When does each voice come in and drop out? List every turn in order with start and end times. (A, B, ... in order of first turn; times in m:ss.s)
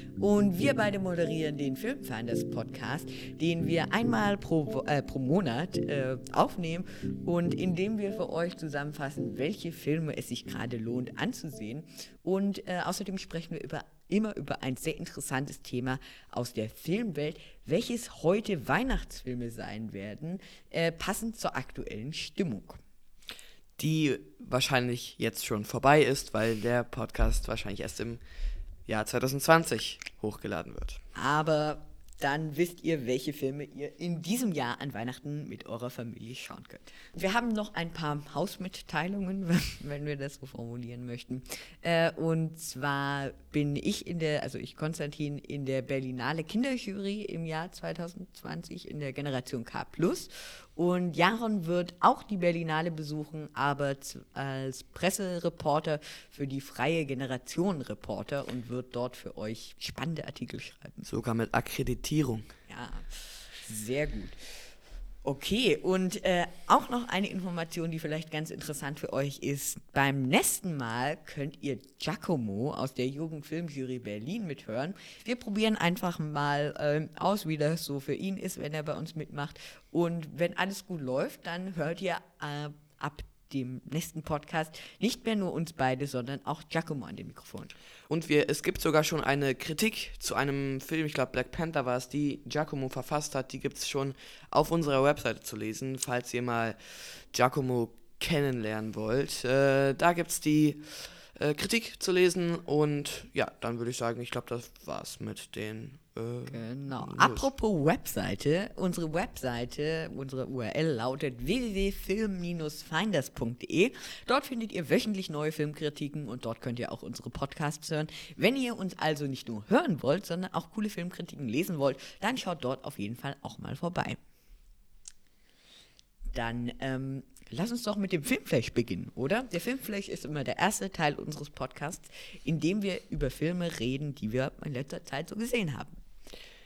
0:00.2-0:22.8 A
0:23.8-0:28.2 B
0:28.9-0:31.0 B
0:31.2-1:01.0 A
1:01.0-1:02.5 B
1:02.7-1:04.4 A
1:05.2-1:27.7 A
1:28.1-1:47.5 B
1:46.5-2:04.2 A
2:06.3-2:16.0 A